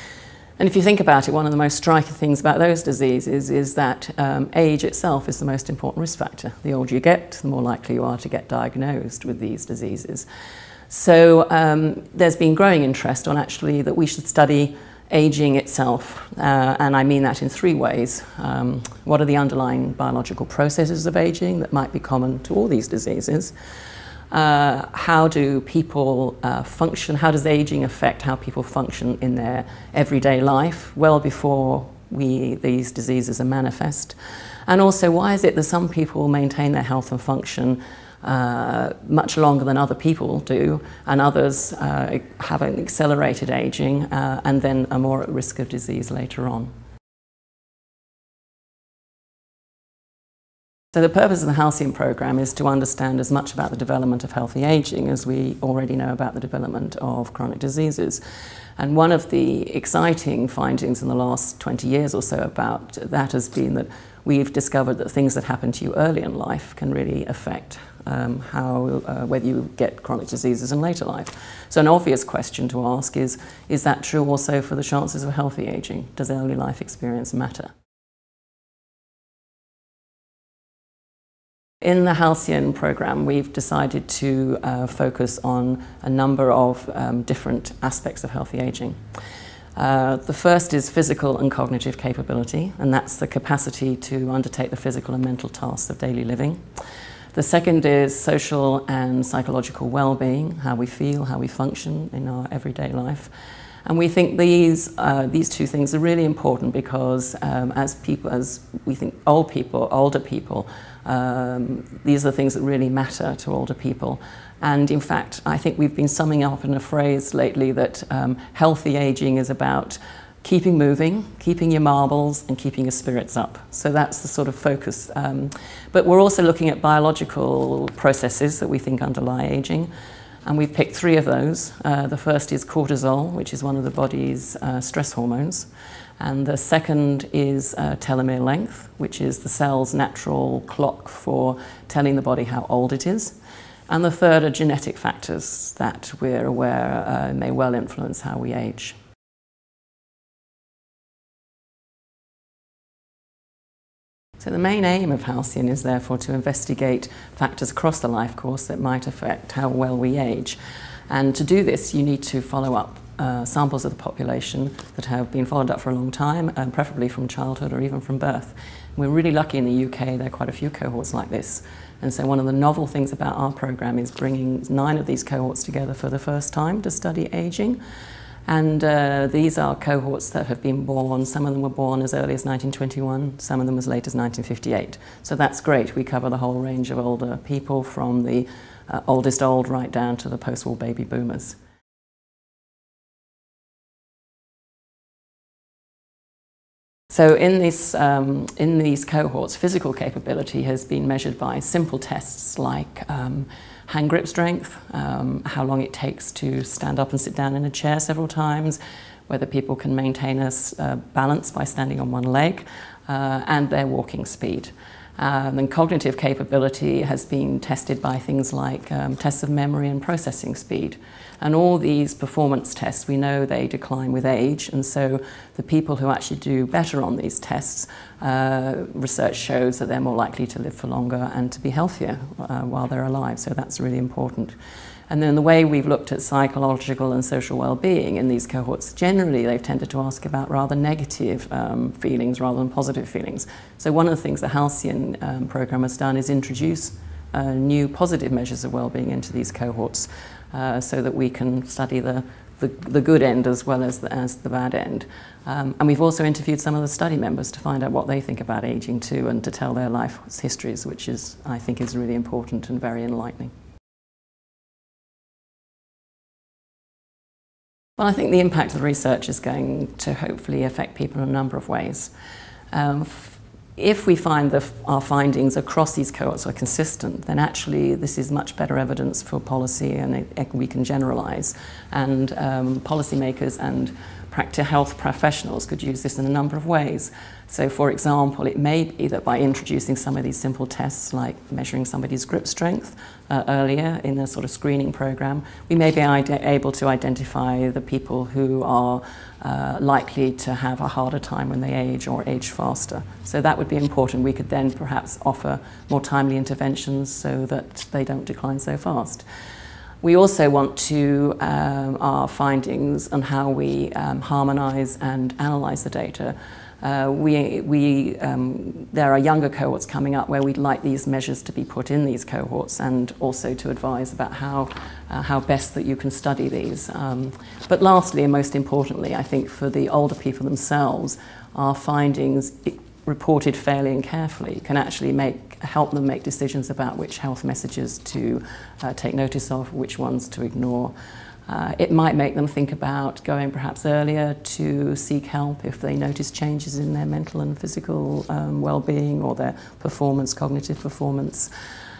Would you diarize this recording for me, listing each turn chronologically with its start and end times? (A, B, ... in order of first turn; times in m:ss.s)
0:00.6-0:10.2 A
0:10.9-0:23.5 A
0:24.3-0:46.7 A
0:50.9-0:58.2 A
0:58.8-1:17.7 A
1:21.8-1:29.0 A
1:29.8-1:36.6 A
1:37.3-1:43.3 A
1:43.8-2:09.9 A
2:10.4-2:15.7 A
2:16.2-2:23.4 A
2:23.9-2:29.0 A
2:34.4-2:40.6 A
2:41.1-2:57.8 A
2:58.5-3:11.6 A
3:17.1-3:54.6 A
3:55.1-4:23.5 A
4:28.0-4:32.1 A
4:32.7-5:09.2 A
5:10.0-5:40.9 A
5:41.5-5:51.5 A